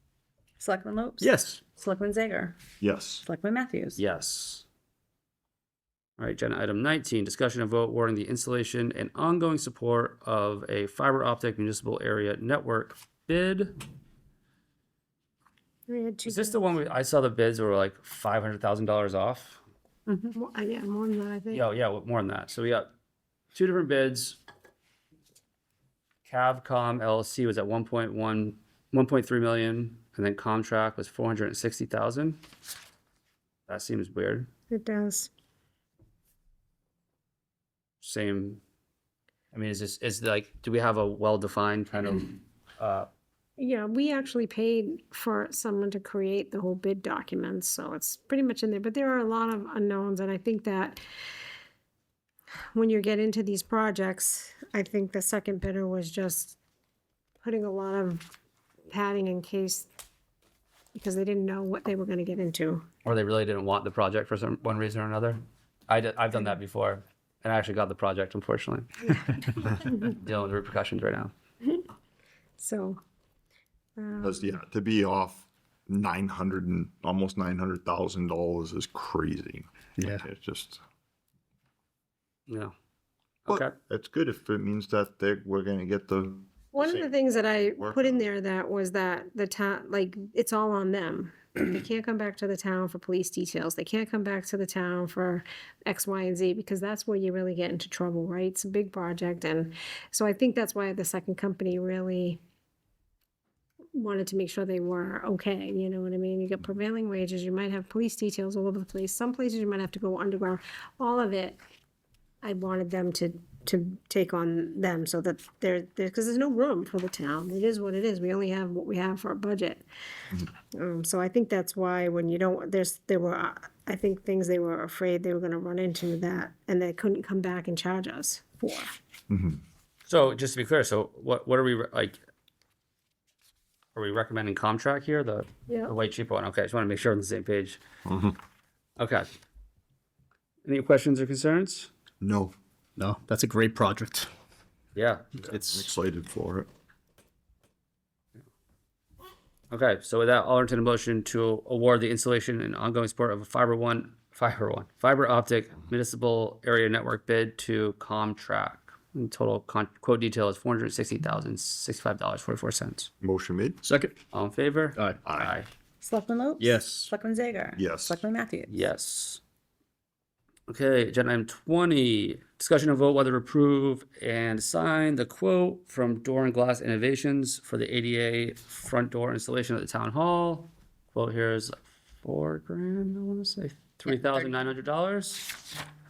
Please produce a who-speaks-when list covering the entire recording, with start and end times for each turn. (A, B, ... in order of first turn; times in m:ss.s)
0:00.6-0:02.6 A
0:01.2-0:01.6 B
0:02.8-0:03.2 C
0:03.2-0:04.0 A
0:04.0-0:04.6 D
0:06.2-0:13.8 D
0:15.9-0:16.7 E
0:16.2-0:19.6 D
0:20.1-0:21.6 E
0:21.5-0:22.9 D
0:23.5-0:24.4 D
0:26.2-0:32.4 D
0:33.7-0:34.5 D
0:34.7-0:35.3 E
0:38.0-0:38.6 D
0:39.5-0:43.1 D
0:43.6-0:51.0 E
0:52.7-0:56.6 E
0:57.4-0:58.2 E
0:58.9-0:59.9 E
1:00.9-1:02.8 E
1:03.0-1:09.1 D
1:10.0-1:11.3 D
1:12.6-1:13.0 E
1:14.0-1:14.6 E
1:14.2-1:20.8 C
1:20.0-1:20.2 B
1:22.5-1:22.7 D
1:23.4-1:23.7 D
1:23.5-1:28.3 C
1:26.7-1:42.4 E
1:43.9-1:51.6 E
1:52.4-1:59.8 E
2:00.7-2:08.9 E
2:09.3-2:09.6 C
2:10.0-2:12.2 D
2:13.9-2:17.8 D
2:15.7-2:15.9 E
2:18.0-2:18.4 C
2:19.0-2:19.3 D
2:20.6-2:21.9 D
2:22.2-2:22.5 C
2:23.0-2:24.3 B
2:24.9-2:25.3 D
2:25.3-2:26.7 C
2:25.4-2:25.9 B
2:29.7-2:43.1 D
2:43.2-2:43.8 C
2:43.8-2:44.1 B
2:44.3-2:45.7 D
2:45.2-2:45.5 C
2:46.0-2:48.7 A
2:46.6-2:47.1 B
2:47.8-2:48.2 C
2:48.7-2:49.4 D
2:50.7-3:05.6 D